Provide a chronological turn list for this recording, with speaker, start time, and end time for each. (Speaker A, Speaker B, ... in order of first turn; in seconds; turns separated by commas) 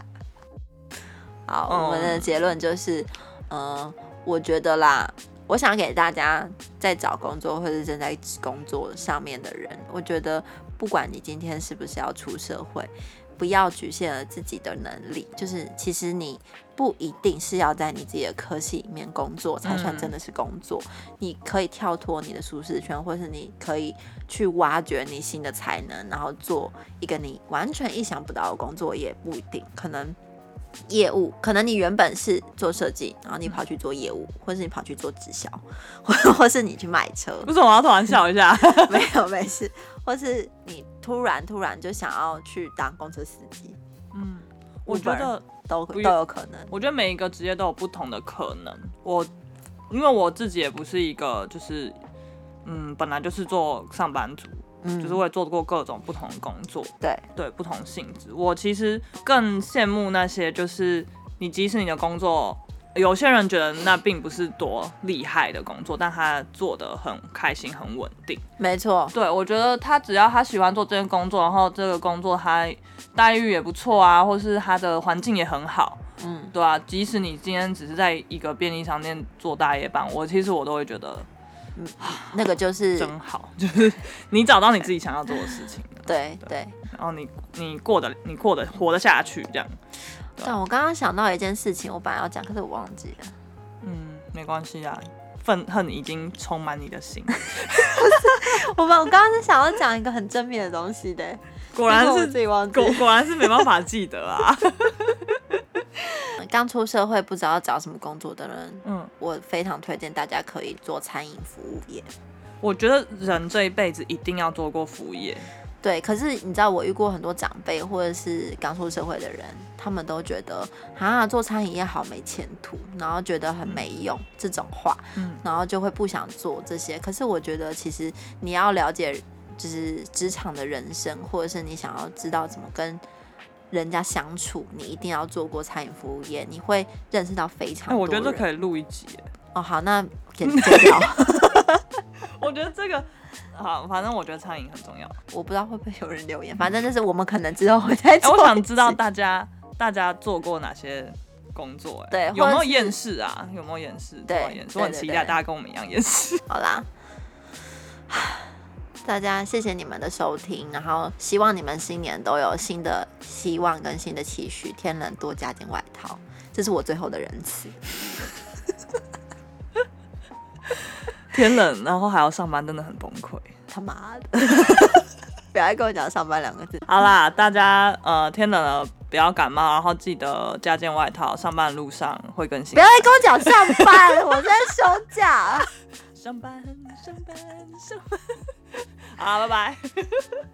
Speaker A: 1.5-30.2, Speaker B: 1.7-2.4, Speaker B: 19.6-20.1, Speaker A: 30.9-37.5, Speaker B: 37.5-39.1, Speaker A: 38.6-43.8, Speaker B: 44.1-46.1, Speaker A: 44.9-46.7, Speaker B: 46.7-49.3, Speaker B: 49.9-52.0, Speaker B: 52.6-68.4, Speaker A: 54.8-55.2, Speaker A: 68.6-69.1, Speaker B: 69.1-76.0, Speaker A: 76.2-76.5, Speaker B: 76.5-81.3, Speaker A: 81.8-83.1, Speaker B: 82.0-82.4, Speaker B: 83.0-86.1, Speaker A: 86.1-86.7, Speaker B: 86.9-89.8, Speaker A: 90.4-93.3, Speaker B: 93.8-97.4, Speaker A: 97.9-103.1, Speaker B: 101.7-105.5, Speaker A: 106.4-112.1, Speaker B: 108.8-109.1, Speaker B: 112.6-115.5, Speaker A: 115.8-133.0, Speaker B: 125.2-125.4, Speaker A: 133.7-138.5, Speaker B: 137.9-139.3, Speaker A: 139.5-141.8, Speaker B: 140.5-141.1, Speaker B: 142.2-145.2, Speaker A: 145.3-149.0, Speaker B: 148.2-156.4, Speaker A: 152.1-153.0, Speaker A: 154.3-155.4, Speaker A: 156.5-156.9, Speaker A: 158.1-158.5, Speaker A: 159.0-168.4, Speaker B: 171.3-173.5, Speaker A: 173.7-176.8, Speaker B: 176.9-184.1, Speaker A: 182.7-185.7, Speaker B: 186.1-190.4